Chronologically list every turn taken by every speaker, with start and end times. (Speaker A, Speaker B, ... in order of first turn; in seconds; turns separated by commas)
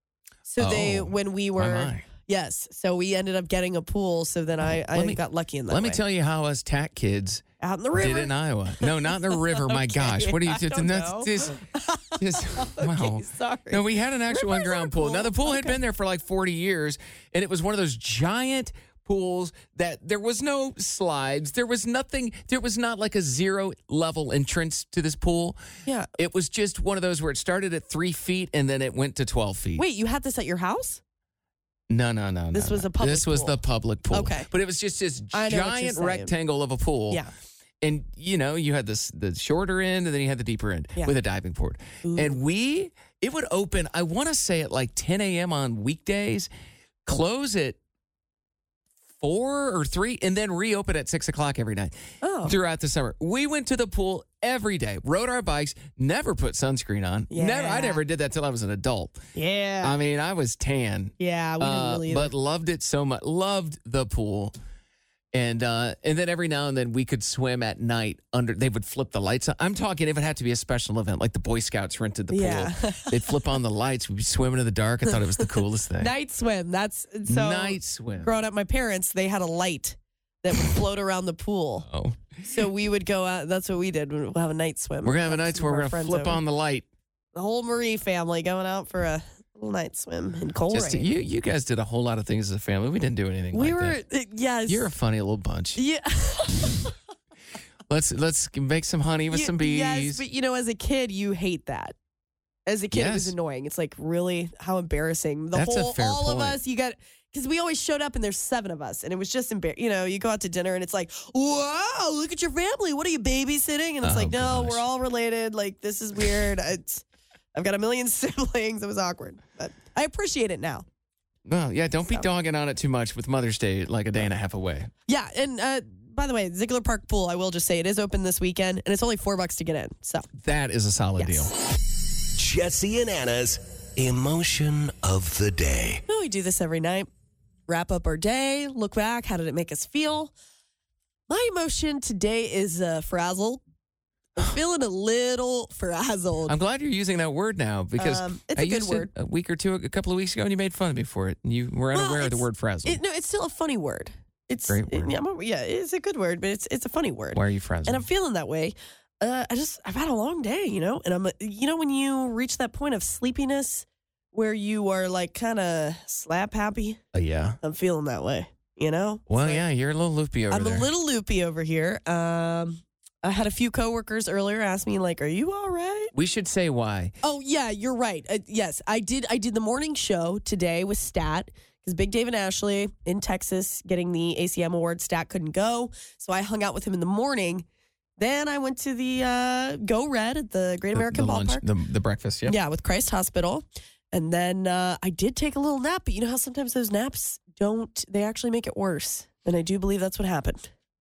Speaker A: 0.5-6.0, Speaker B: 0.6-2.1, Speaker B: 4.6-11.6, Speaker A: 7.6-8.3, Speaker A: 8.8-13.8, Speaker B: 12.2-25.6, Speaker A: 14.3-15.8, Speaker B: 26.1-29.8, Speaker A: 29.8-31.0, Speaker B: 31.9-37.2, Speaker A: 32.5-33.5, Speaker A: 34.1-34.5, Speaker A: 35.3-36.3, Speaker B: 37.8-46.5, Speaker A: 42.0-42.4, Speaker B: 47.0-47.8, Speaker B: 49.2-51.9, Speaker A: 52.2-52.5, Speaker B: 52.4-59.2, Speaker A: 57.3-58.0, Speaker A: 59.3-60.0, Speaker B: 59.8-64.5, Speaker A: 61.2-62.3, Speaker B: 65.3-76.1, Speaker A: 72.3-73.2, Speaker A: 76.0-81.8, Speaker B: 77.3-78.3, Speaker B: 81.8-82.4, Speaker A: 82.4-86.4, Speaker B: 85.0-86.9, Speaker A: 87.3-91.0, Speaker B: 90.7-94.0, Speaker A: 93.5-94.8, Speaker B: 94.7-95.8, Speaker A: 95.8-96.9, Speaker B: 97.9-100.2, Speaker A: 99.3-101.9, Speaker A: 102.7-120.8, Speaker B: 102.9-103.3, Speaker B: 105.5-106.6, Speaker B: 114.0-114.8, Speaker B: 121.5-124.9, Speaker A: 125.1-130.3, Speaker B: 130.4-131.5, Speaker A: 131.2-131.5, Speaker C: 132.3-136.0, Speaker A: 136.1-137.1, Speaker A: 137.7-140.3, Speaker A: 141.3-143.6, Speaker A: 144.3-146.5, Speaker B: 146.5-153.0, Speaker A: 148.0-149.1, Speaker A: 151.9-167.0, Speaker B: 154.7-155.1, Speaker B: 157.3-158.0, Speaker B: 167.1-167.6, Speaker A: 167.6-169.6, Speaker B: 169.3-170.9, Speaker A: 170.5-176.1, Speaker B: 176.1-177.1, Speaker A: 177.2-187.6, Speaker A: 188.2-191.6, Speaker B: 190.9-192.6, Speaker A: 192.4-200.7